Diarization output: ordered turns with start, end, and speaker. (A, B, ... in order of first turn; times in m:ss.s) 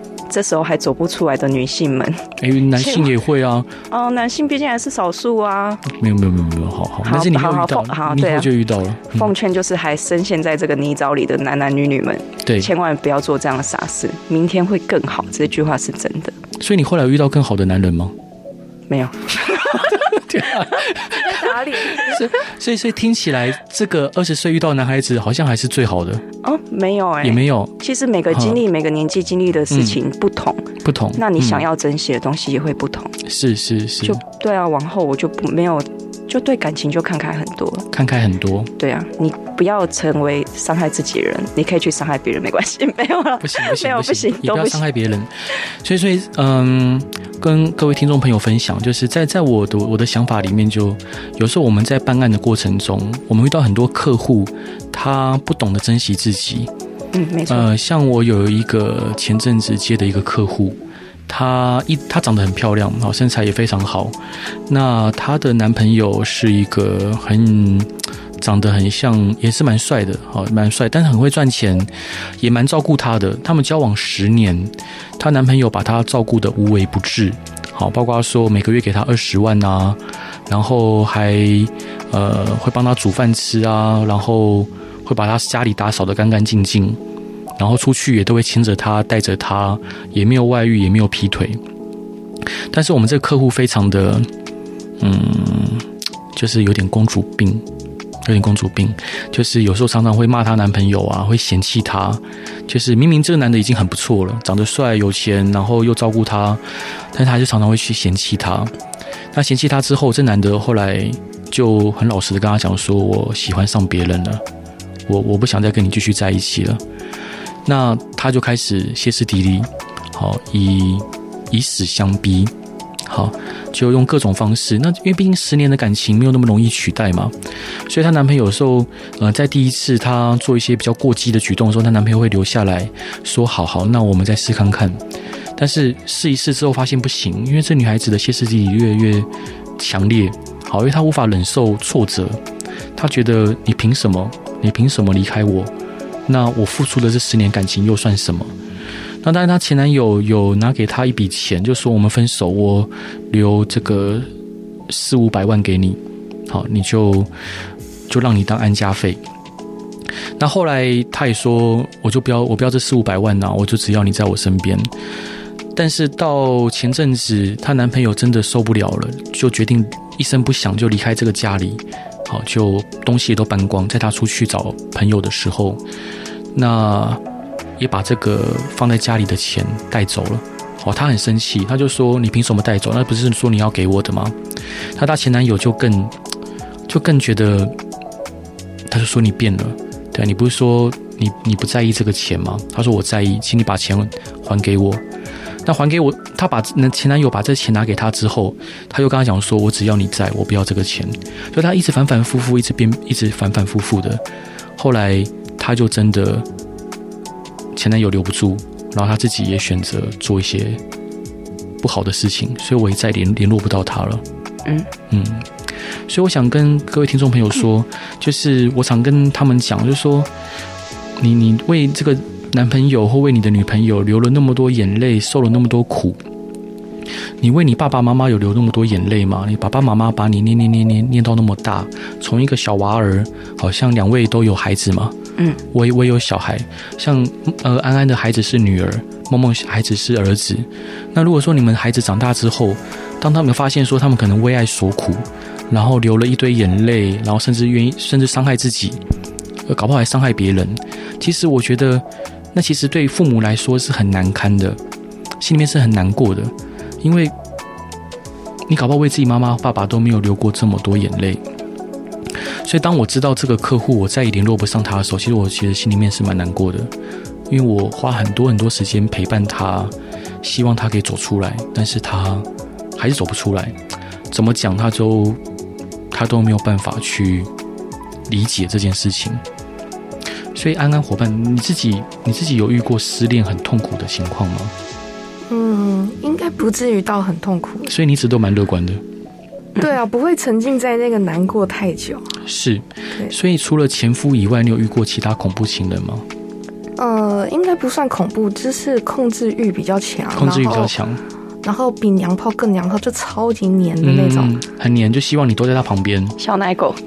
0:00.3-0:03.1 A
0:02.4-0:03.7 B
0:03.9-0:05.8 A
0:05.8-0:09.3 B
0:07.0-0:08.5 A
0:09.1-0:16.4 A
0:12.4-0:12.7 B
0:16.6-0:18.1 B
0:18.9-0:22.3 A
0:19.6-0:26.2 B
0:26.4-0:33.2 A
0:27.2-0:27.7 B
0:28.3-0:28.6 B
0:29.7-0:30.0 B
0:30.8-0:31.7 B
0:33.2-0:34.2 B
0:34.0-0:37.9 A
0:37.9-0:38.7 B
0:38.8-0:44.8 A
0:43.4-0:56.7 B
0:57.1-0:57.7 A
0:57.5-1:27.0 B
1:27.6-1:31.6 B
1:32.7-1:34.3 B
1:35.0-1:37.6 B
1:38.2-1:46.6 B
1:47.1-1:48.7 B
1:49.3-1:54.4 B
1:55.1-1:56.8 B
1:57.6-2:02.5 B
2:03.0-2:07.3 B
2:07.8-2:15.0 B
2:15.6-2:22.4 B
2:23.0-2:25.7 B
2:26.2-2:28.5 B
2:29.2-2:34.3 B
2:34.9-2:37.3 B
2:38.1-2:39.2 B
2:40.4-2:44.9 B
2:45.7-2:55.8 B
2:56.5-2:57.2 B
2:57.8-3:04.4 B
3:04.9-3:06.1 B
3:06.9-3:07.8 B
3:08.9-3:15.0 B
3:15.6-3:24.2 B
3:24.8-3:26.5 B
3:27.7-3:30.8 B
3:31.8-3:34.2 B
3:35.1-3:35.5 B
3:36.1-3:40.3 B
3:41.2-3:46.2 B
3:47.4-3:55.1 B
3:55.7-4:09.0 B
4:09.7-4:14.8 B
4:15.4-4:17.3 B
4:18.7-4:21.4 B
4:22.4-4:26.9 B
4:27.5-4:33.8 B
4:34.3-4:35.4 B
4:36.1-4:37.5 B
4:38.3-4:39.4 B
4:40.5-4:44.7 B
4:45.5-4:47.9 C
4:47.9-4:49.0 B
4:49.8-4:52.4 C
4:52.4-4:56.2 B
4:57.0-5:00.9 C
5:00.3-5:01.2 B
5:01.6-5:04.5 C
5:04.0-5:06.4 B
5:06.4-5:07.0 A